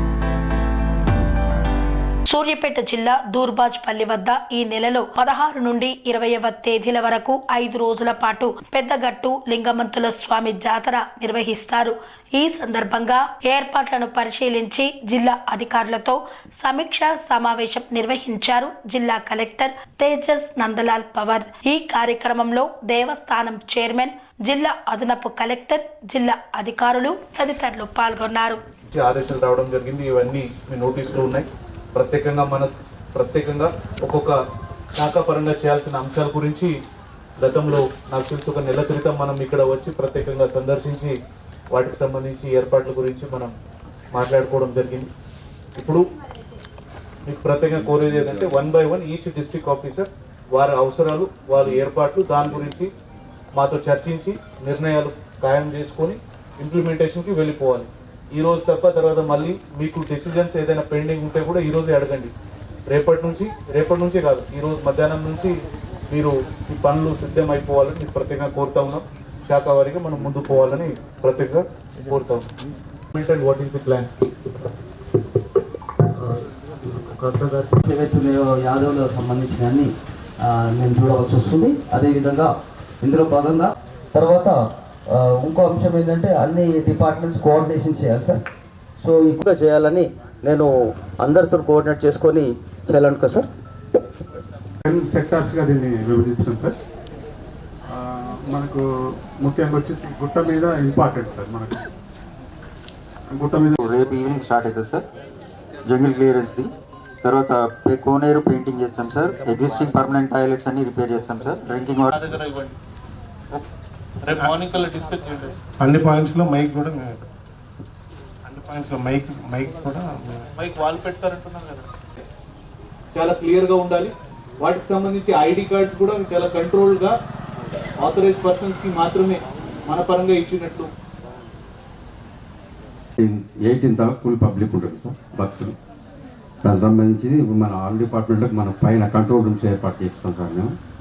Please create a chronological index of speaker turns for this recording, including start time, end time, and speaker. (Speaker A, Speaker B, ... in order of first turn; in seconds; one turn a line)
Speaker A: 2.3-28.6
Speaker B: 28.9-34.4
Speaker B: 35.0-36.7
Speaker B: 37.4-41.1
Speaker B: 41.7-43.5
Speaker B: 44.1-45.1
Speaker B: 45.7-46.0
Speaker B: 47.2-52.9
Speaker B: 53.5-62.3
Speaker B: 62.9-72.5
Speaker B: 73.1-74.1
Speaker C: 76.9-79.9
Speaker C: 80.4-88.4
Speaker C: 89.0-90.7
Speaker C: 91.2-93.5
Speaker D: 94.8-96.7
Speaker D: 97.9-98.8
Speaker D: 99.4-101.8
Speaker D: 103.3-103.8
Speaker E: 103.6-105.0
Speaker E: 105.8-112.1
Speaker B: 112.1-112.7
Speaker B: 114.3-115.5
Speaker F: 115.8-117.2
Speaker F: 118.5-120.5
Speaker B: 120.6-121.8
Speaker B: 123.1-127.1
Speaker B: 128.0-130.9
Speaker G: 133.2-135.7
Speaker G: 136.6-140.7